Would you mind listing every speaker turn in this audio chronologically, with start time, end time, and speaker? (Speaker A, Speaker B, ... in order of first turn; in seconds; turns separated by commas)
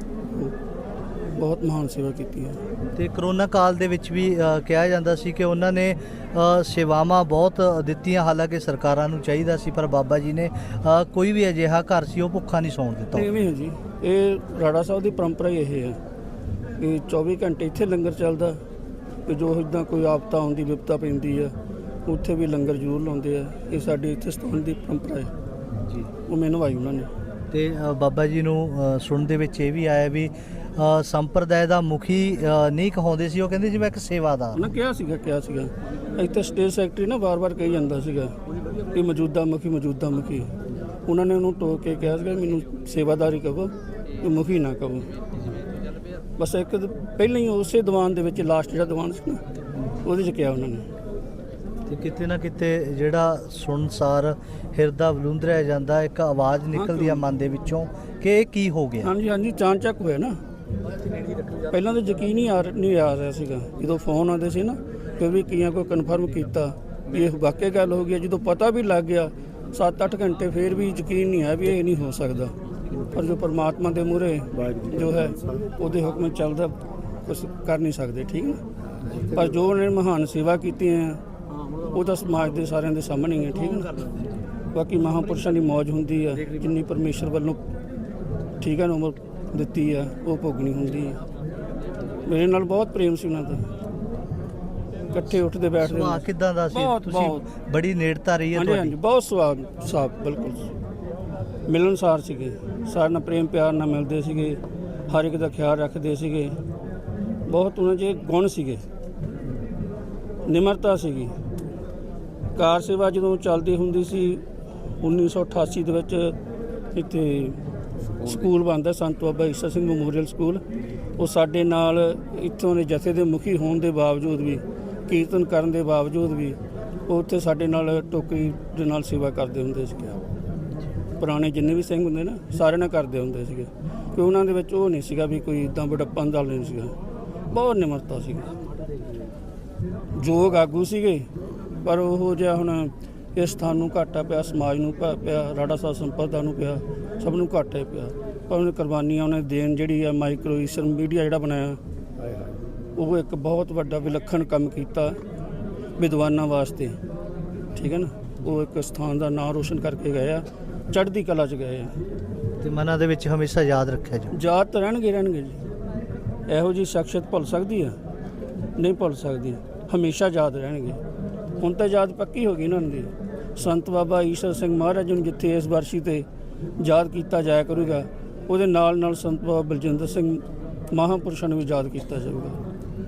Speaker A: 1.4-2.6, Speaker B: 2.9-13.3, Speaker A: 13.1-16.0, Speaker A: 16.8-18.6, Speaker A: 19.2-21.5, Speaker A: 22.1-25.3, Speaker B: 25.8-26.1, Speaker A: 26.3-27.1, Speaker B: 27.5-34.7, Speaker A: 34.5-38.4, Speaker A: 38.9-40.5, Speaker A: 41.1-45.2, Speaker A: 46.4-49.4, Speaker A: 50.0-50.9, Speaker B: 51.9-59.1, Speaker A: 56.8-57.2, Speaker A: 59.0-60.4, Speaker A: 61.5-72.5, Speaker A: 73.0-78.6, Speaker A: 79.2-81.2, Speaker A: 81.8-84.1, Speaker A: 84.7-87.6, Speaker A: 88.6-91.2, Speaker A: 92.2-93.7, Speaker A: 95.1-97.5, Speaker B: 95.8-99.0, Speaker A: 98.5-100.7, Speaker A: 101.7-106.5, Speaker A: 107.5-108.8, Speaker A: 110.4-111.3, Speaker A: 112.5-114.4, Speaker A: 115.0-116.3, Speaker A: 116.9-117.6, Speaker A: 118.2-120.6, Speaker A: 121.2-130.2, Speaker A: 131.2-136.9, Speaker A: 137.5-138.5, Speaker A: 140.1-141.3, Speaker A: 141.8-151.8, Speaker A: 152.9-155.2, Speaker A: 156.0-157.0, Speaker A: 157.8-161.9, Speaker B: 162.6-164.3, Speaker A: 164.3-165.6, Speaker A: 166.5-167.9, Speaker A: 168.8-171.0, Speaker A: 171.6-176.2, Speaker A: 176.8-182.6